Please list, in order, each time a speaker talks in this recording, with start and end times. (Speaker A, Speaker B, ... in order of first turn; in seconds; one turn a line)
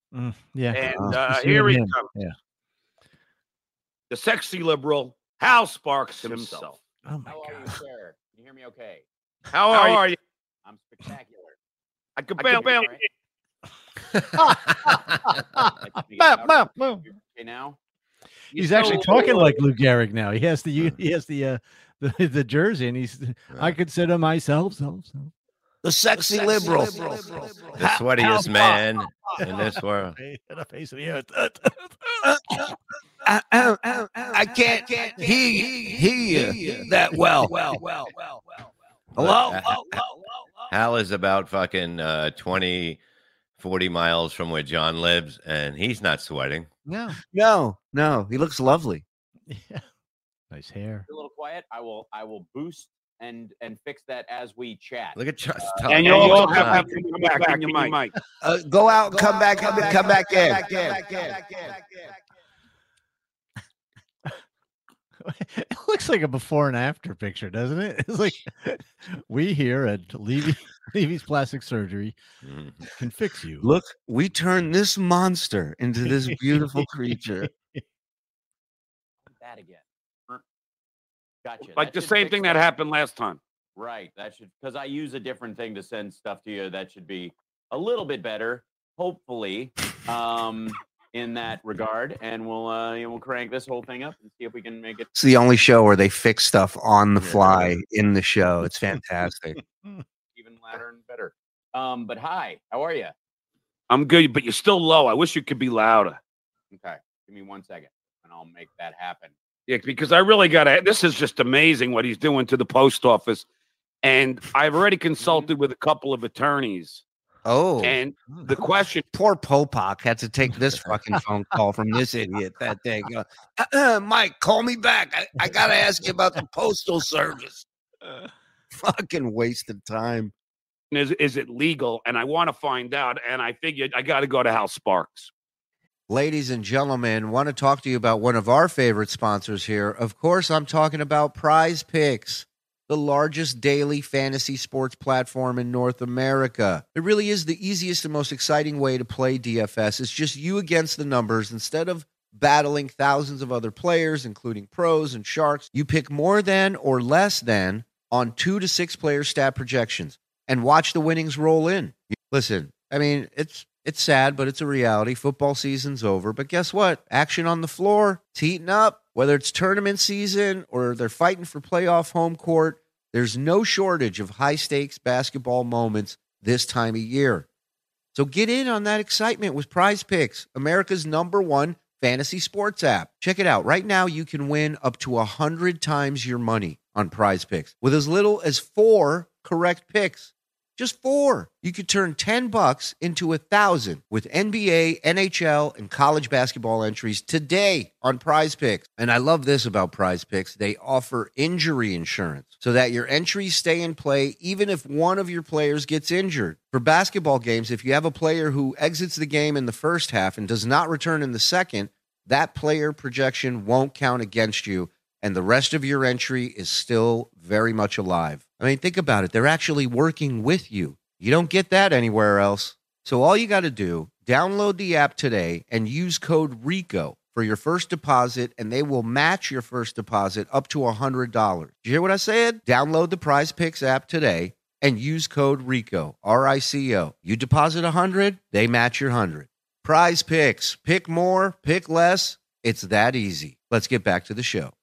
Speaker A: 0.1-2.4
Speaker B: 0.7-2.1
Speaker B: 4.1-6.8
Speaker A: 7.0-7.7
Speaker C: 7.3-9.1
Speaker B: 9.5-10.2
Speaker C: 9.7-10.0
Speaker C: 10.7-11.6
Speaker B: 12.2-13.1
Speaker C: 12.4-13.0
Speaker D: 14.2-14.9
Speaker A: 14.4-17.0
Speaker C: 15.7-17.8
Speaker A: 18.5-25.3
Speaker B: 18.5-19.6
Speaker C: 18.8-19.2
Speaker D: 23.5-23.8
Speaker E: 25.8-27.6
Speaker D: 27.8-30.2
Speaker A: 29.4-32.7
Speaker E: 33.2-38.1
Speaker A: 36.2-37.8
Speaker D: 39.1-39.9
Speaker E: 39.2-40.2
Speaker D: 40.7-43.0
Speaker D: 43.6-46.7
Speaker A: 46.9-47.2
Speaker E: 47.2-49.0
Speaker A: 49.5-49.9
Speaker A: 50.5-51.1
Speaker C: 51.1-55.2
Speaker D: 55.2-56.9
Speaker B: 55.9-58.1
Speaker C: 56.0-58.0
Speaker E: 58.4-61.8
Speaker A: 65.2-72.2
Speaker D: 72.4-72.8
Speaker A: 73.0-73.7
Speaker E: 73.6-77.5
Speaker A: 76.2-76.8
Speaker A: 77.4-77.8
Speaker C: 79.3-80.4
Speaker C: 81.4-82.6
Speaker B: 81.8-83.4
Speaker C: 83.8-95.1
Speaker E: 95.2-99.6
Speaker A: 99.6-100.0
Speaker C: 100.3-103.1
Speaker B: 103.9-106.2
Speaker C: 106.7-109.3
Speaker B: 109.7-113.5
Speaker B: 114.0-117.0
Speaker C: 115.2-115.5
Speaker E: 117.5-118.0
Speaker B: 117.8-119.0
Speaker E: 119.1-127.7
Speaker E: 128.8-130.3
Speaker B: 130.9-135.3
Speaker E: 136.1-177.5
Speaker E: 178.1-244.7